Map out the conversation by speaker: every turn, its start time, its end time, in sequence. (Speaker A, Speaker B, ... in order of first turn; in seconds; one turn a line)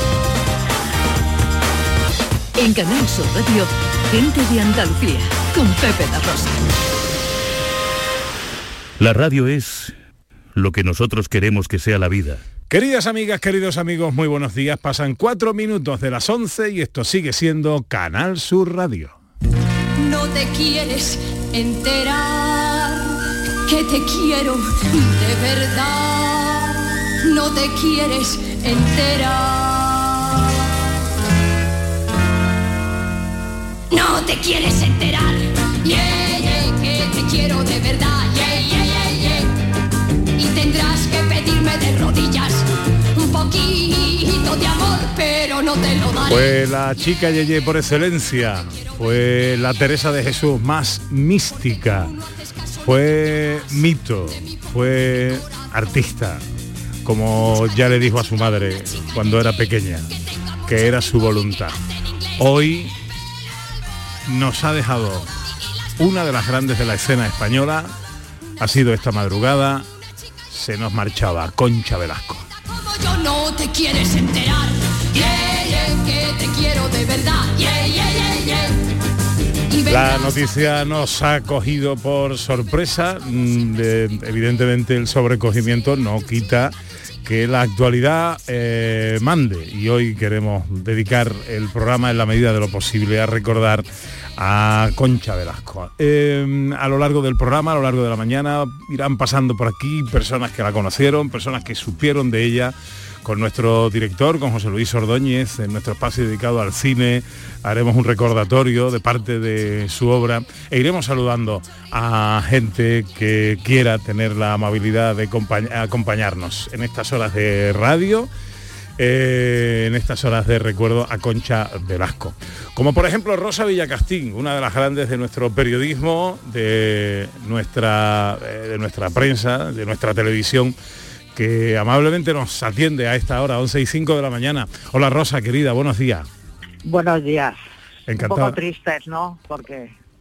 Speaker A: 2.6-6.7
Speaker B: 9.0-10.0
Speaker B: 10.6-12.4
Speaker C: 12.7-19.2
Speaker D: 20.0-30.3
Speaker D: 33.9-39.5
Speaker D: 40.4-46.5
Speaker C: 46.2-52.1
Speaker D: 51.5-55.7
Speaker C: 52.8-56.4
Speaker C: 57.0-61.8
Speaker D: 57.5-59.2
Speaker D: 60.2-60.8
Speaker D: 61.8-62.4
Speaker C: 62.4-63.0
Speaker C: 64.3-65.3
Speaker C: 66.0-68.0
Speaker C: 68.6-69.9
Speaker C: 70.5-72.5
Speaker D: 72.7-78.8
Speaker D: 79.7-80.4
Speaker C: 79.9-118.3
Speaker C: 119.0-130.8
Speaker C: 131.3-136.3
Speaker E: 136.8-137.6
Speaker C: 138.1-138.6
Speaker E: 138.2-139.9